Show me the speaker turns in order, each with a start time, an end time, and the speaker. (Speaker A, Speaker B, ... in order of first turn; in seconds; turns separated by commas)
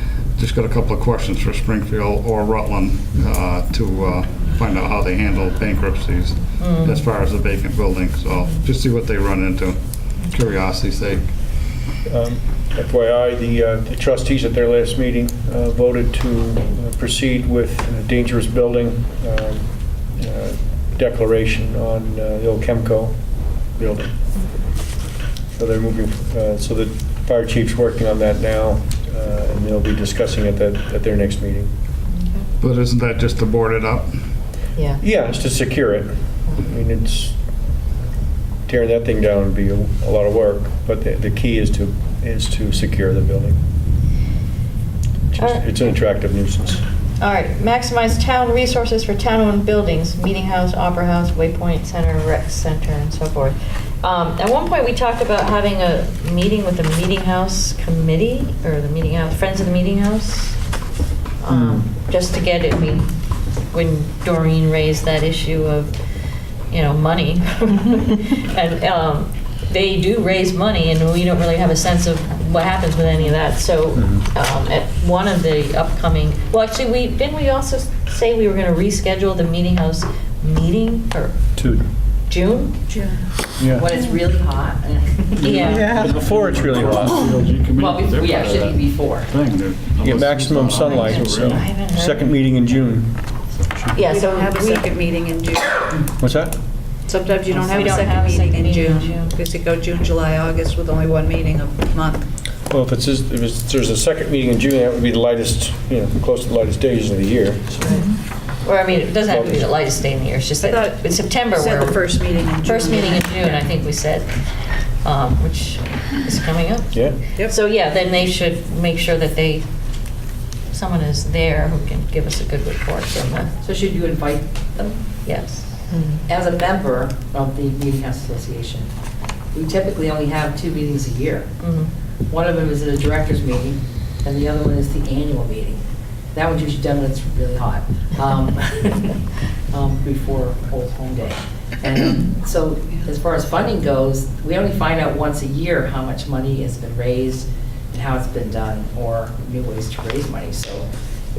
Speaker A: 0.4-9.8, Speaker B: 6.6-7.0, Speaker A: 10.3-11.3, Speaker C: 12.1-19.7, Speaker C: 20.2-23.1, Speaker C: 23.8-24.1, Speaker C: 25.6-31.7, Speaker B: 32.1-32.5, Speaker A: 32.6-34.1, Speaker B: 34.8-35.0, Speaker C: 35.0-37.4, Speaker C: 38.7-43.6, Speaker C: 45.3-46.8, Speaker B: 45.4-45.6, Speaker B: 47.2-60.6, Speaker B: 61.4-63.1, Speaker C: 61.5-61.9, Speaker B: 63.7-65.9, Speaker B: 66.7-81.4, Speaker C: 74.0-74.2, Speaker C: 81.5-81.8, Speaker B: 82.3-82.8, Speaker D: 82.9-83.2, Speaker C: 83.6-83.9, Speaker E: 83.6-85.7, Speaker B: 85.4-86.0, Speaker A: 85.4-91.6, Speaker C: 85.5-87.3, Speaker E: 87.8-89.3, Speaker C: 90.0-93.1, Speaker B: 90.7-92.3, Speaker B: 93.9-94.9, Speaker D: 94.0-96.1, Speaker C: 96.2-96.5, Speaker D: 97.1-102.3, Speaker B: 97.5-99.3, Speaker C: 102.7-108.0, Speaker B: 108.6-112.0, Speaker C: 109.3-109.6, Speaker D: 110.6-113.7, Speaker B: 112.6-114.3, Speaker B: 115.0-119.6, Speaker B: 120.7-123.5, Speaker E: 123.6-125.0, Speaker B: 125.2-125.8, Speaker E: 126.3-128.9, Speaker E: 129.5-131.5, Speaker B: 131.6-131.9, Speaker E: 132.3-135.8, Speaker E: 136.3-139.2, Speaker E: 139.7-150.9